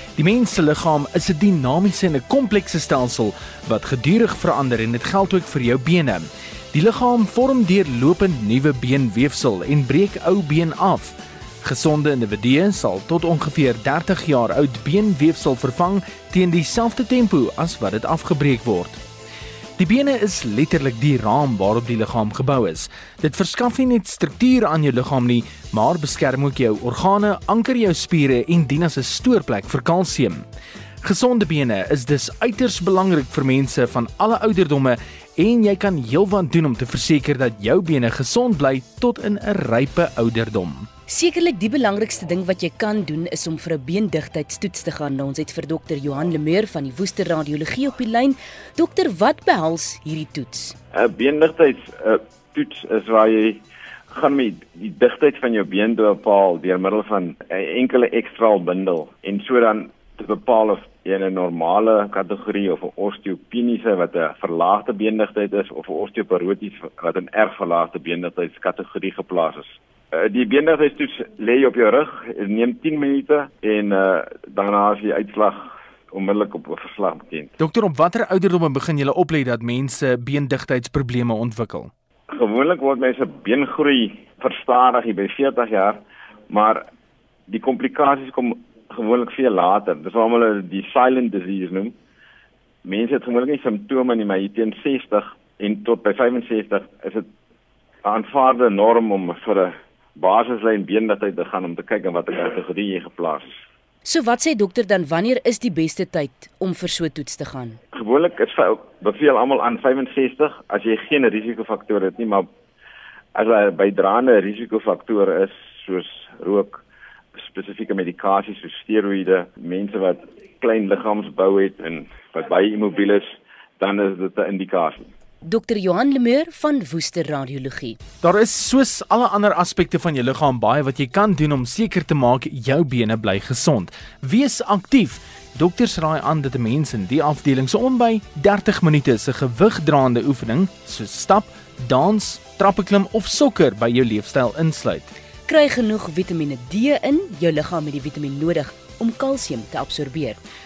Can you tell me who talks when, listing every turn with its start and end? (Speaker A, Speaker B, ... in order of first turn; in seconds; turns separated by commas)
Speaker A: 0.2-19.0, Speaker A: 19.8-30.4, Speaker A: 31.0-40.9, Speaker B: 41.1-50.7, Speaker C: 50.9-77.5, Speaker A: 77.6-81.9, Speaker C: 82.3-86.0, Speaker C: 86.5-86.8, Speaker C: 87.5-91.9, Speaker C: 92.8-97.2, Speaker C: 98.0-103.5, Speaker B: 104.0-107.8, Speaker C: 107.9-112.5, Speaker C: 113.3-116.8, Speaker C: 117.4-123.2, Speaker C: 123.8-125.1, Speaker B: 125.4-128.0, Speaker A: 128.2-145.1, Speaker B: 145.5-150.4